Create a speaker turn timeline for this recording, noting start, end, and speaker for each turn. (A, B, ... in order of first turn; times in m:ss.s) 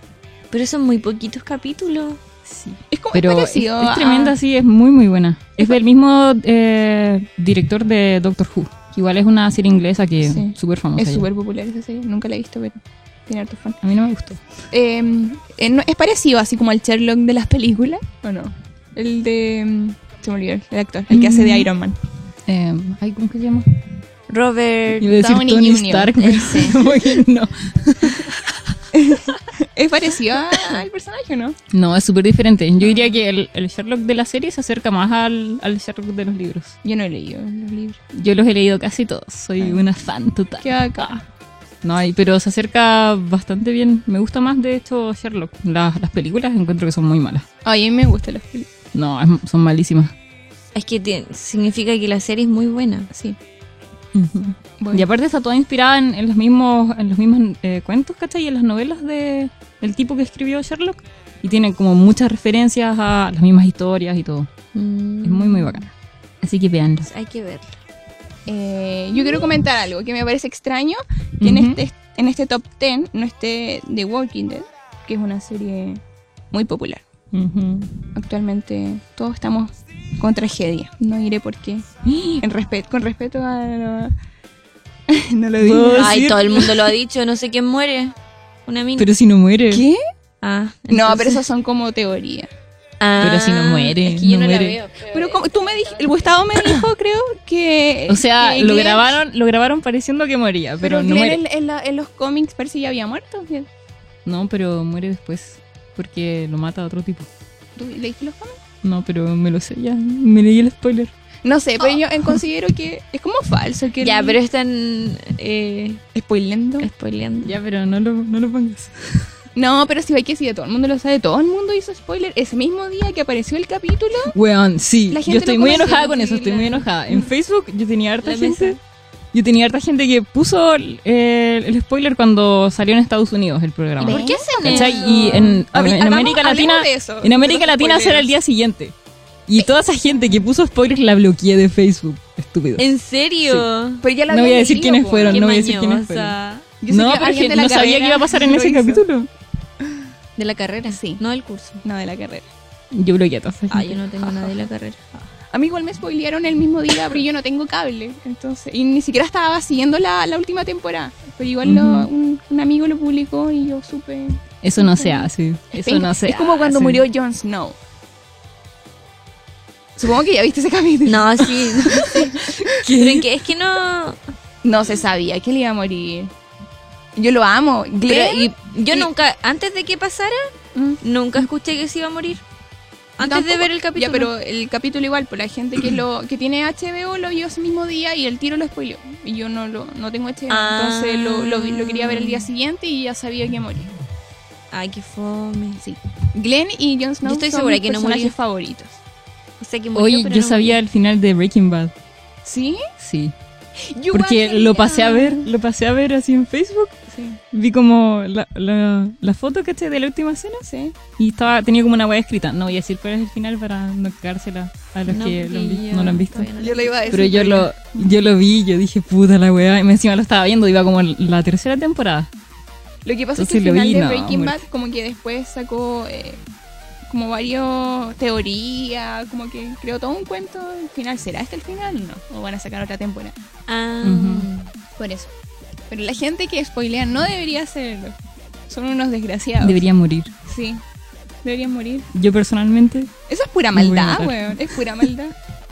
0:00.5-0:02.2 A
0:02.5-0:11.3 B
0:02.9-0:04.4 C
0:10.2-0:13.8 C
0:13.8-0:14.4 B
0:14.7-0:22.0 C
0:21.1-0:21.7 B
0:22.5-0:23.7 B
0:24.3-0:25.2 A
0:25.0-0:28.7 B
0:25.0-0:27.0 C
0:26.2-0:26.9 A
0:28.9-0:31.6 C
0:31.7-0:36.8 B
0:32.8-0:33.1 C
0:36.8-0:38.0 C
0:38.1-0:41.2 B
0:40.6-0:41.2 C
0:41.8-0:47.4 B
0:47.6-0:48.7 C
0:48.9-0:50.1 B
0:50.8-0:53.1 A
0:53.1-0:53.4 C
0:54.1-1:04.5 B
0:54.8-0:55.1 C
1:04.7-1:05.8 A
1:05.2-1:05.9 B
1:06.4-1:07.1 B
1:07.0-1:07.8 A
1:08.5-1:17.0 C
1:11.4-1:11.8 B
1:17.3-1:17.9 B
1:18.2-1:24.1 C
1:25.1-1:26.3 C
1:25.6-1:26.8 B
1:25.9-1:28.2 A
1:28.7-1:29.1 A
1:29.0-1:29.9 B
1:29.7-1:30.0 C
1:30.4-1:31.4 A
1:30.9-1:32.5 C
1:33.0-1:36.2 A
1:33.2-1:34.8 B
1:35.0-1:39.2 C
1:38.1-1:41.4 B
1:40.8-1:43.7 C
1:44.2-1:47.3 B
1:47.8-1:48.6 C
1:48.8-1:51.1 B
1:51.4-1:54.4 C
1:54.0-1:56.0 A
1:56.2-1:56.9 C
1:56.8-1:57.5 A
1:57.4-1:59.3 B
1:59.6-2:04.4 C
2:04.3-2:08.8 B
2:05.1-2:07.3 C
2:08.2-2:08.8 A
2:09.3-2:19.0 B
2:14.0-2:18.3 C
2:14.0-2:15.6 A
2:19.5-2:22.9 B
2:22.8-2:24.0 A
2:24.0-2:25.5 C
2:24.3-2:26.4 B
2:25.2-2:26.7 A
2:26.8-2:29.0 C
2:26.9-2:29.3 B
2:30.4-2:31.8 A
2:30.9-2:31.2 C
2:31.8-2:32.5 C
2:32.9-2:34.5 B
2:33.7-2:35.1 A
2:35.5-2:47.8 C
2:41.6-2:42.1 B
2:44.6-2:47.0 B
2:50.0-2:52.8 C
2:51.0-2:54.2 A
2:52.2-2:53.3 B
2:54.6-2:56.3 C
2:57.2-2:59.1 C
2:58.1-3:00.5 A
3:00.8-3:01.0 C
3:01.0-3:02.4 A
3:03.2-3:04.3 A
3:03.2-3:13.9 C
3:10.5-3:12.5 A
3:14.7-3:15.8 A
3:15.8-3:19.0 C
3:17.2-3:18.4 A
3:19.6-3:20.8 A
3:20.0-3:21.9 B
3:22.4-3:22.8 C
3:23.0-3:23.4 B
3:23.8-3:25.5 C
3:24.1-3:27.0 B
3:27.1-3:27.4 C
3:27.5-3:30.7 B
3:30.6-3:31.0 C
3:31.2-3:36.5 B
3:35.1-3:37.4 A
3:36.6-3:38.2 C
3:37.1-3:42.3 B
3:43.0-3:46.4 C
3:43.4-3:44.6 B
3:47.1-3:53.4 C
3:53.7-3:54.7 A
3:54.0-3:54.5 B
3:55.0-3:55.3 C
3:55.9-3:58.2 C
3:58.7-3:59.8 C
3:59.6-4:00.3 B
4:00.5-4:00.8 C
4:01.4-4:02.1 C
4:02.1-4:03.1 B
4:03.3-4:05.4 C
4:03.7-4:05.1 B